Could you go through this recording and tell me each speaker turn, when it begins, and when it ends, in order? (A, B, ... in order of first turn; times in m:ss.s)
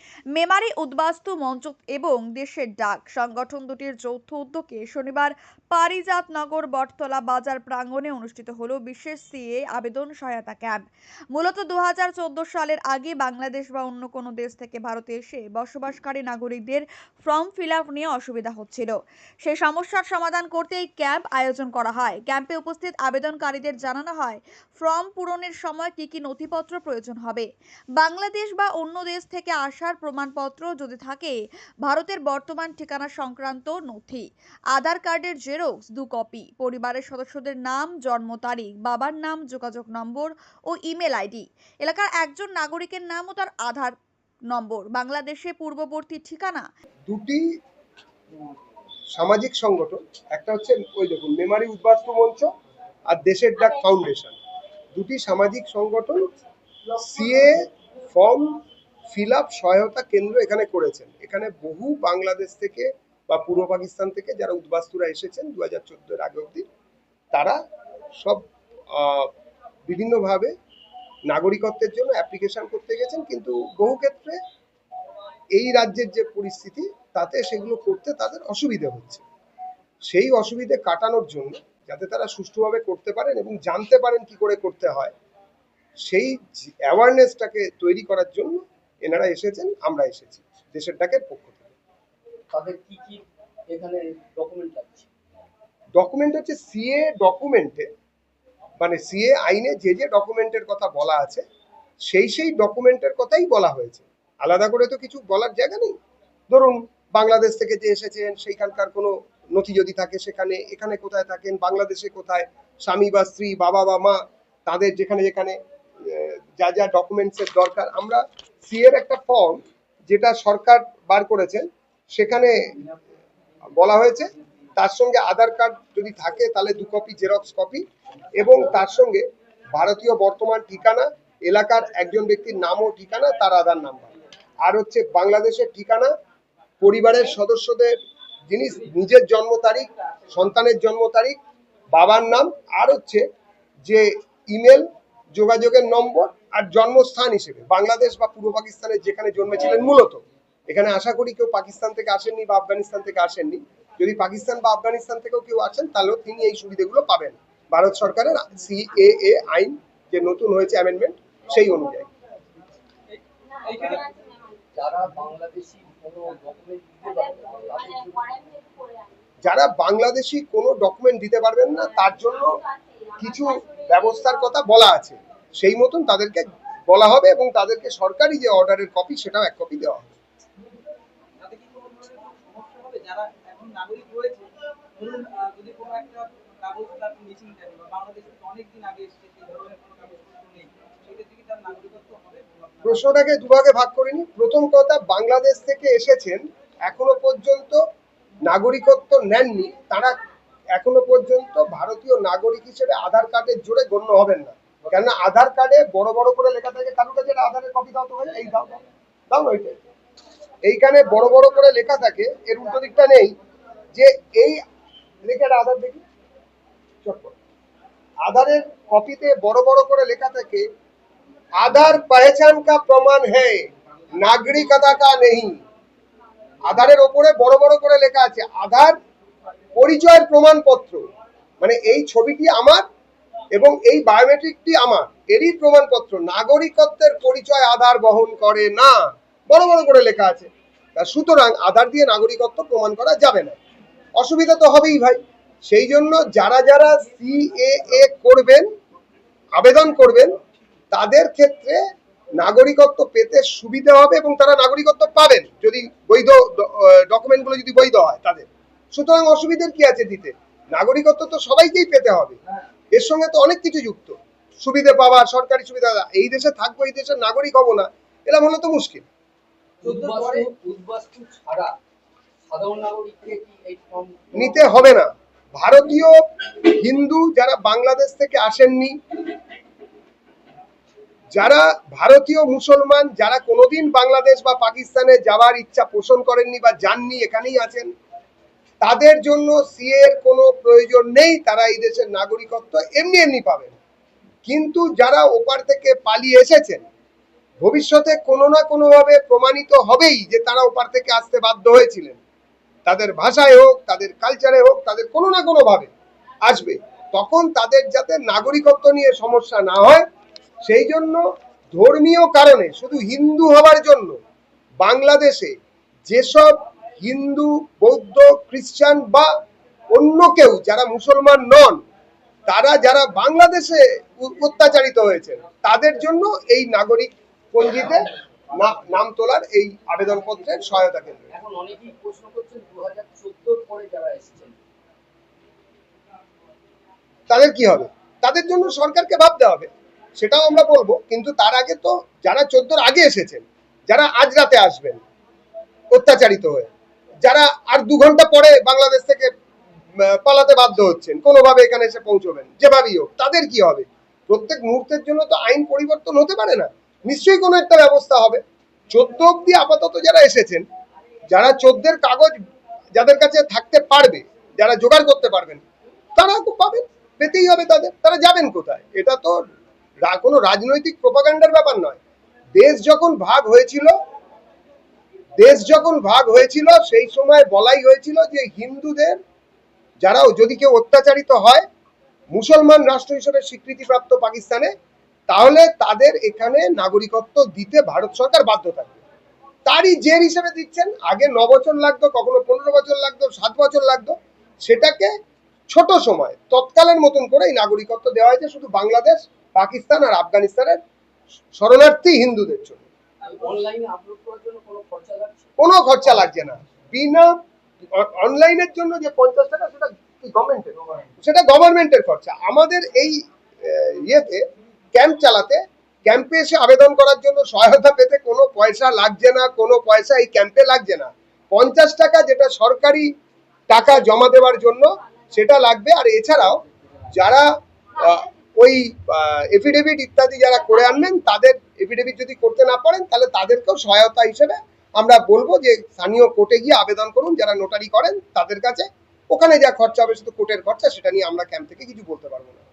0:00.3-0:10.8 A
0:11.3-0:27.5 A
0:28.0-0:43.9 A
0:44.5-0:46.7 A
0:47.1-0:47.4 B
0:49.1-0:52.5 B
0:53.1-0:54.4 B
0:54.9-0:56.2 B
0:57.0-0:57.6 B
0:58.1-0:58.6 B
0:59.1-1:06.6 B
1:08.9-1:09.3 B
1:09.9-1:10.5 B
1:11.3-1:14.4 B
1:15.5-1:19.2 B
1:20.1-1:25.1 B
1:26.0-1:31.7 B
1:32.5-1:35.1 C
1:35.9-1:37.9 B
1:38.8-1:41.4 B
1:42.1-1:45.9 B
1:46.5-2:02.5 B
2:03.8-2:07.8 B
2:08.4-2:09.2 B
2:09.7-2:14.1 B
2:14.6-2:16.1 B
2:16.8-2:17.9 B
2:18.5-2:21.4 B
2:21.9-2:23.2 B
2:23.8-2:42.1 B
2:43.1-2:44.2 D
2:44.7-2:48.5 C
2:49.4-2:52.5 B
2:53.2-3:00.1 B
3:01.4-3:13.0 D
3:12.8-3:17.8 B
3:18.4-3:20.1 B
3:20.7-3:28.8 B
3:29.3-3:29.8 B
3:30.6-3:33.3 B
3:33.9-3:34.6 B
3:35.2-3:36.0 B
3:37.0-3:37.3 B
3:38.2-3:40.6 B
3:41.6-3:43.6 B
3:44.2-3:45.6 B
3:46.6-3:48.9 B
3:49.8-3:51.0 B
3:51.6-3:52.8 B
3:53.5-3:59.0 B
3:59.5-4:03.6 B
4:04.2-4:08.7 B
4:09.6-4:10.4 B
4:10.9-4:11.8 B
4:12.4-4:22.4 B
4:22.9-4:29.1 B
4:29.8-4:30.5 D
4:29.8-4:31.7 C
4:32.5-4:34.5 C
4:34.4-4:38.9 B
4:41.3-4:47.9 B
4:48.8-4:53.8 B
4:54.4-4:56.8 B
4:57.6-5:02.2 B
5:02.8-5:05.9 B
5:06.4-5:10.0 B
5:10.6-5:11.2 B
5:11.7-5:14.2 B
5:14.8-5:15.5 B
5:16.0-5:19.3 B
5:19.9-5:21.8 B
5:22.5-5:31.3 B
5:31.3-5:34.6 C
5:37.3-5:45.0 B
5:45.9-5:46.7 B
5:47.2-5:49.3 B
5:50.0-6:00.6 B
6:01.3-6:02.4 B
6:02.9-6:05.6 B
6:06.2-6:09.4 B
6:10.0-6:12.0 B
6:12.6-6:13.9 B
6:15.4-6:19.2 B
6:20.0-6:21.6 B
6:22.3-6:24.7 B
6:25.3-6:29.0 B
6:29.7-6:35.1 B
6:35.7-6:40.8 B
6:41.6-6:42.8 B
6:43.2-6:43.6 D
6:43.2-6:45.5 C
6:45.6-6:47.3 B
6:47.9-6:54.4 B
6:54.9-7:03.1 B
7:03.7-7:07.4 B
7:08.0-7:22.6 B